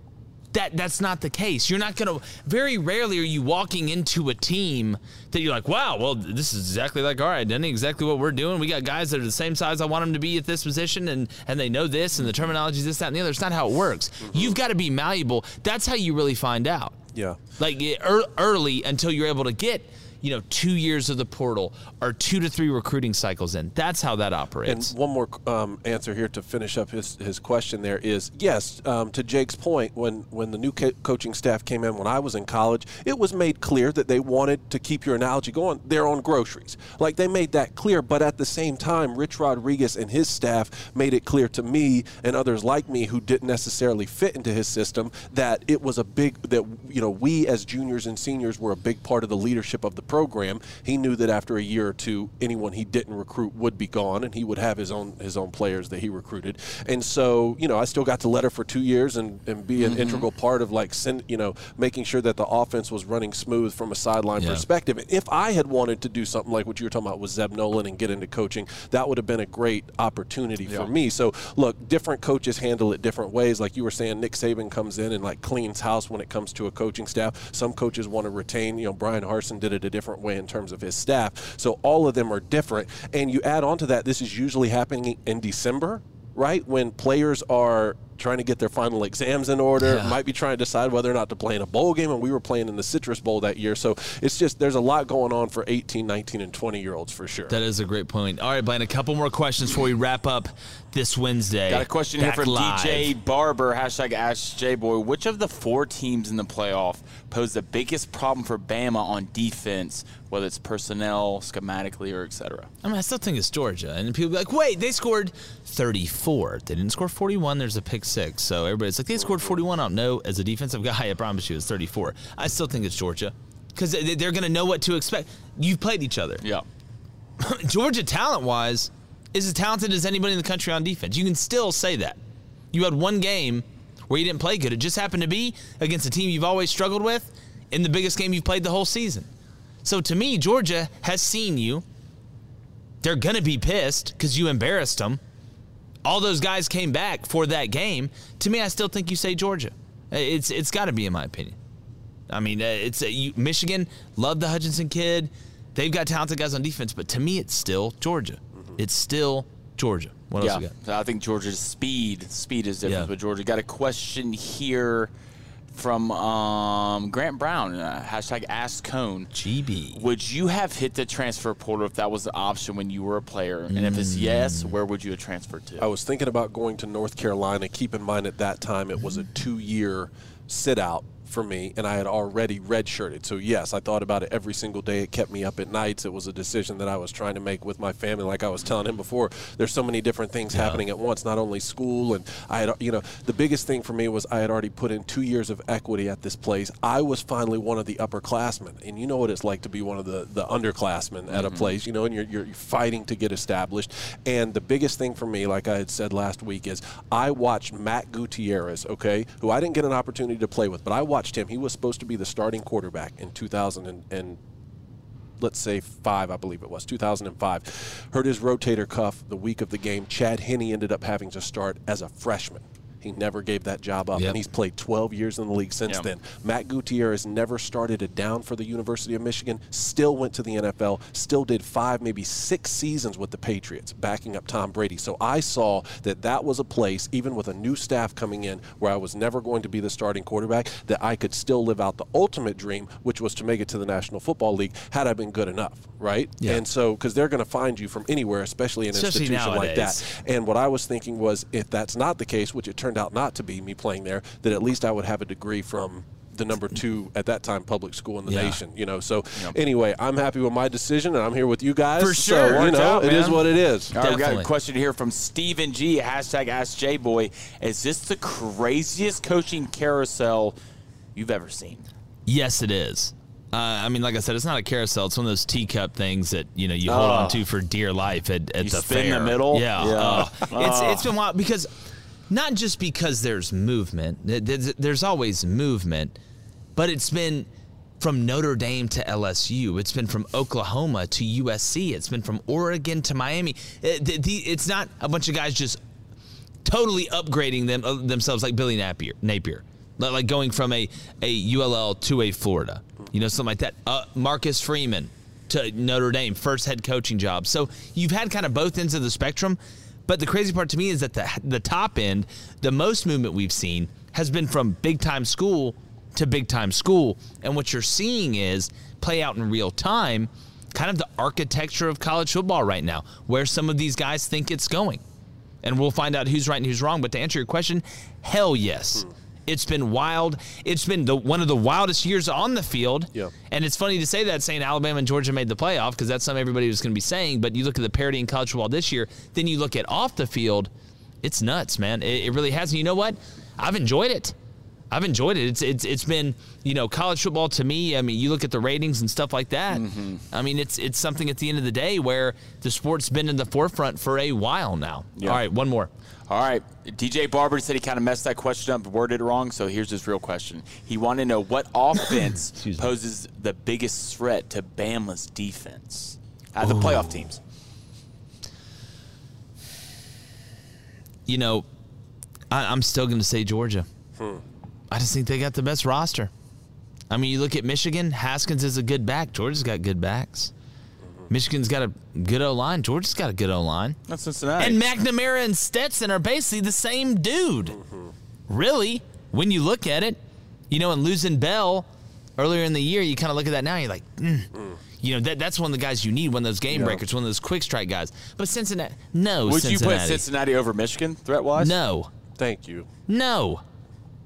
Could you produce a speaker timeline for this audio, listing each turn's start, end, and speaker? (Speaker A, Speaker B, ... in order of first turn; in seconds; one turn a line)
Speaker A: 0.5-17.0
Speaker B: 12.2-12.5
Speaker B: 14.2-14.6
Speaker B: 17.1-17.4
Speaker A: 17.6-24.9
Speaker B: 24.6-97.5
Speaker C: 59.8-60.3
Speaker A: 64.4-64.6
Speaker A: 89.8-90.2
Speaker A: 97.5-103.1
Speaker C: 101.7-112.7
Speaker A: 112.8-126.4
Speaker B: 119.2-119.6
Speaker A: 127.4-132.2
Speaker A: 132.7-139.3
Speaker A: 139.8-141.8
Speaker A: 143.0-145.2
Speaker A: 146.0-151.6
Speaker A: 152.3-160.7
Speaker C: 160.4-165.1
Speaker C: 165.7-169.3
Speaker A: 169.3-170.0
Speaker C: 169.9-175.9
Speaker A: 173.7-174.7
Speaker B: 175.8-214.4
Speaker A: 190.5-190.8
Speaker C: 201.3-201.8
Speaker B: 215.4-263.9
Speaker A: 248.9-250.0
Speaker A: 258.2-258.6
Speaker A: 262.0-264.5
Speaker C: 262.4-262.9
Speaker C: 263.9-270.6
Speaker C: 271.1-271.9
Speaker A: 272.2-281.7
Speaker C: 276.9-277.4
Speaker C: 278.6-281.1
Speaker A: 282.3-286.1
Speaker A: 286.8-287.5
Speaker A: 288.0-295.8
Speaker A: 296.6-325.0
Speaker A: 325.6-340.7
Speaker A: 341.2-344.3
Speaker A: 344.9-355.9
Speaker C: 349.7-350.2
Speaker C: 356.3-367.4
Speaker A: 362.6-362.9
Speaker A: 366.6-367.2
Speaker A: 371.3-371.6
Speaker A: 372.5-373.9
Speaker A: 374.9-376.3
Speaker A: 377.1-380.5
Speaker A: 381.3-384.0
Speaker C: 384.1-384.8
Speaker A: 384.6-387.8
Speaker B: 387.7-388.1
Speaker A: 388.5-390.2
Speaker A: 390.7-400.2
Speaker B: 394.5-394.8
Speaker B: 396.7-397.0
Speaker C: 399.4-401.8
Speaker A: 401.6-402.1
Speaker B: 402.4-402.9
Speaker A: 403.1-403.6